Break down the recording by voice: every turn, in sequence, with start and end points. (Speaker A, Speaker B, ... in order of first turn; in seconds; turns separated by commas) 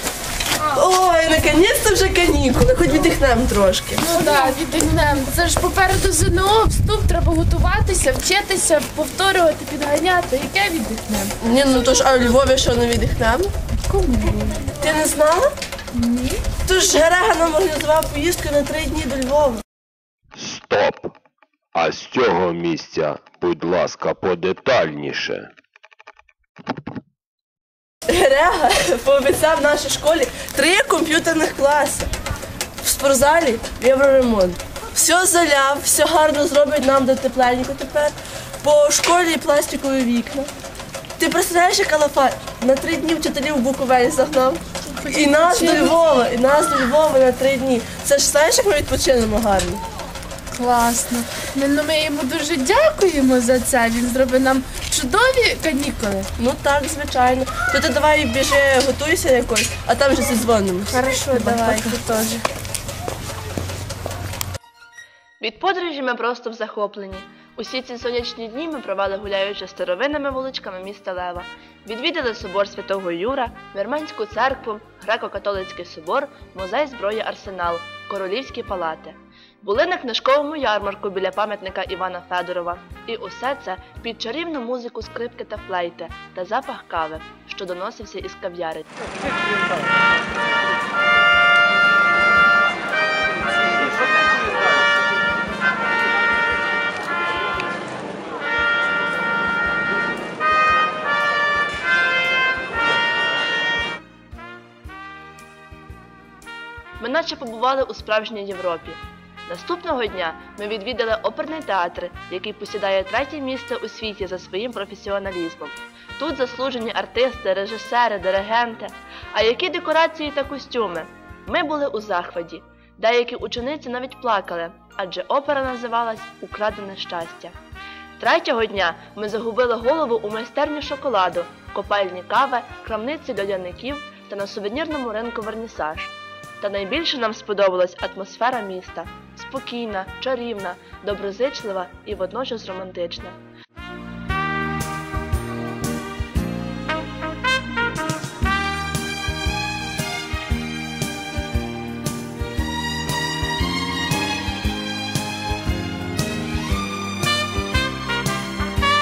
Speaker A: 0.7-4.1, Speaker B: 4.0-11.3, Speaker A: 11.4-13.5, Speaker B: 13.9-14.7, Speaker A: 14.7-15.5, Speaker B: 15.9-16.4, Speaker A: 16.6-19.6, Speaker C: 20.4-21.1, Speaker C: 21.7-25.5, Speaker A: 28.1-32.1, Speaker A: 32.8-40.5, Speaker A: 41.2-49.8, Speaker B: 45.0-45.9, Speaker B: 50.5-56.3, Speaker A: 56.4-62.0, Speaker B: 60.9-62.4, Speaker D: 65.4-88.9, Speaker D: 107.0-127.5, Speaker D: 128.2-143.4